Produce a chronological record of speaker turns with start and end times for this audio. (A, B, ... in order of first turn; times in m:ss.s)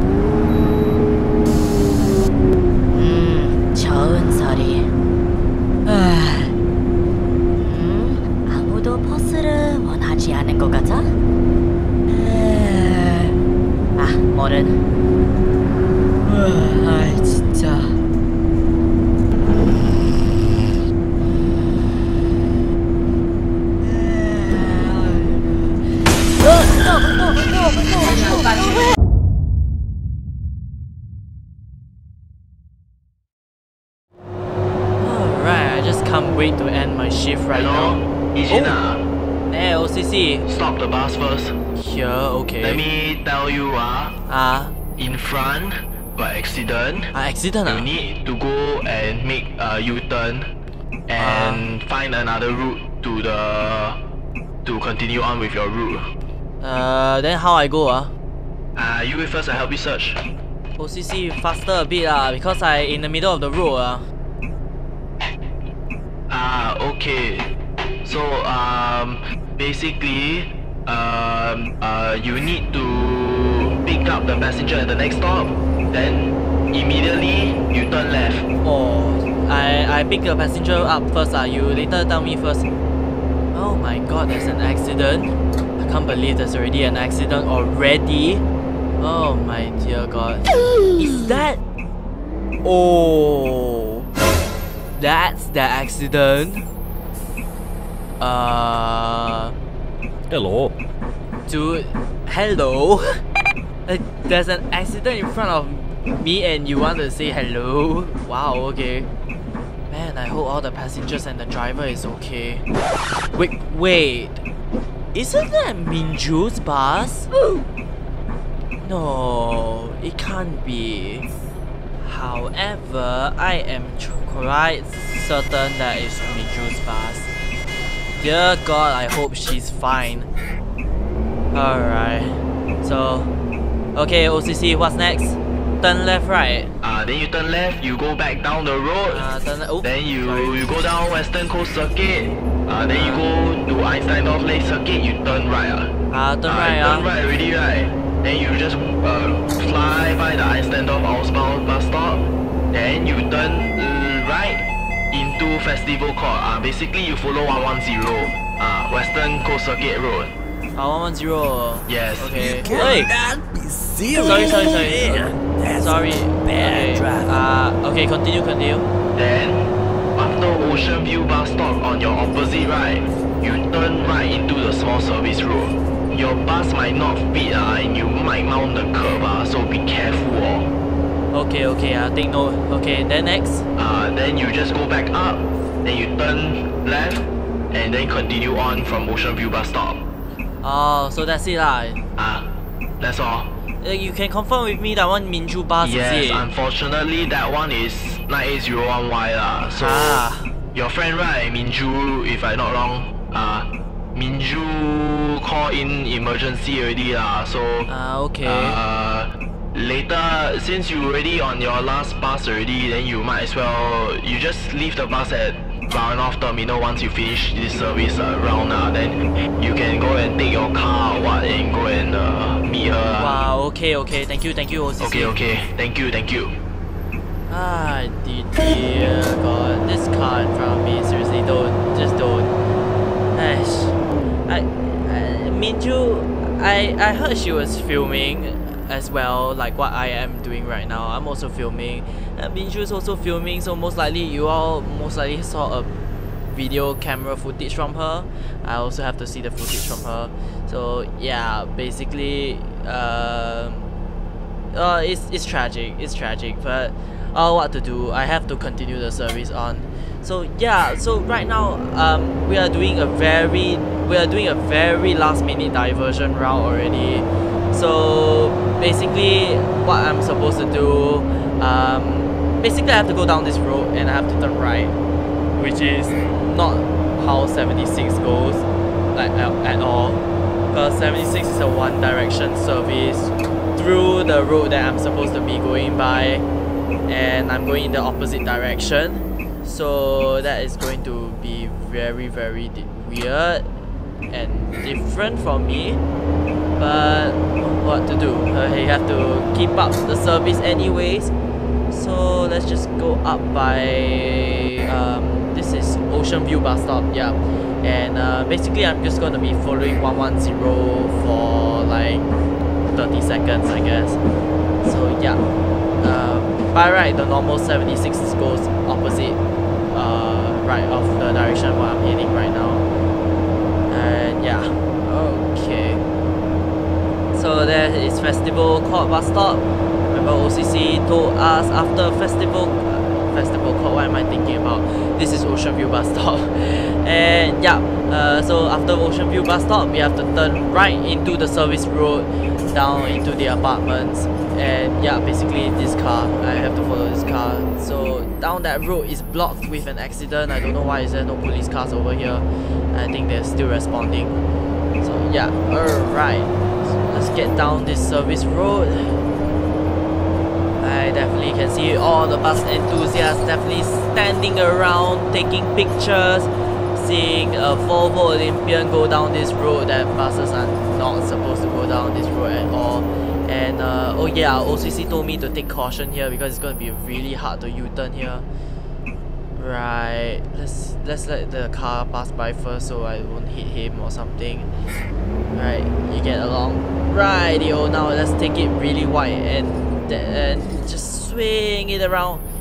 0:02.9-0:04.9 A
0:05.9-0:06.5 A
0:07.6-0:11.1 A
0:12.1-0:13.4 A
0:14.0-0:14.8 A
0:16.2-0:18.0 A
0:19.5-0:22.5 A
0:23.8-0:28.8 A
0:35.0-0:38.8 B
0:37.5-0:39.0 C
0:39.5-0:40.4 B
0:40.5-0:41.6 C
0:41.8-0:42.8 B
0:42.6-0:44.2 C
0:44.3-0:44.7 B
0:45.0-0:47.1 C
0:47.1-0:47.9 B
0:47.7-0:50.5 C
0:51.1-0:54.0 C
0:51.2-0:51.7 B
0:54.6-0:56.1 C
0:56.6-0:58.1 B
0:58.8-1:00.2 C
1:00.8-1:04.0 B
1:06.3-1:07.5 C
1:08.0-1:18.5 C
1:18.6-1:22.7 B
1:23.5-1:28.4 B
1:29.0-1:31.6 B
1:32.6-1:34.1 B
1:35.0-1:36.7 B
1:38.2-1:39.5 B
1:40.3-1:40.8 D
1:41.5-1:43.2 B
1:43.9-1:49.1 B
1:49.9-1:52.6 B
1:53.3-1:54.4 B
1:55.1-1:57.3 B
1:58.8-2:01.3 B
2:02.0-2:07.3 B
2:08.2-2:10.3 B
2:11.5-2:13.3 B
2:14.0-2:16.7 B
2:16.8-2:19.3 C
2:19.1-2:20.7 B
2:19.8-2:25.9 C
2:22.9-2:23.3 B
2:26.1-2:27.1 B
2:26.5-2:40.3 C
2:40.8-2:43.1 B
2:41.9-2:43.0 C
2:42.5-2:47.4 D
2:44.1-2:48.8 B
2:49.2-3:00.7 C
3:01.3-3:03.6 B
3:03.8-3:10.1 C
3:10.6-3:12.0 B
3:12.2-3:13.5 C
3:13.8-3:16.5 B
3:15.8-3:20.2 C
3:19.8-3:20.5 B
3:20.7-3:27.9 C
3:27.9-3:28.8 B
3:28.4-3:43.4 C
3:43.2-3:45.4 B
3:45.0-3:46.6 C
3:47.5-3:52.5 B
3:53.3-3:54.0 B
3:54.5-4:05.9 B
4:06.5-4:13.9 B
4:14.7-4:34.9 B
4:35.6-4:40.2 B
4:40.7-4:46.4 B
4:47.1-4:53.7 B
4:54.3-4:56.0 B
4:56.8-5:01.3 B
5:01.9-5:12.3 B
5:12.9-5:14.2 B
5:14.8-5:15.4 B
5:16.0-5:19.4 B
5:19.9-5:22.8 B
5:23.9-5:26.0 B
5:27.3-5:54.4 B
5:55.0-5:59.2 B
6:00.8-6:18.4 B
6:19.6-6:24.7 B
6:25.5-6:32.4 B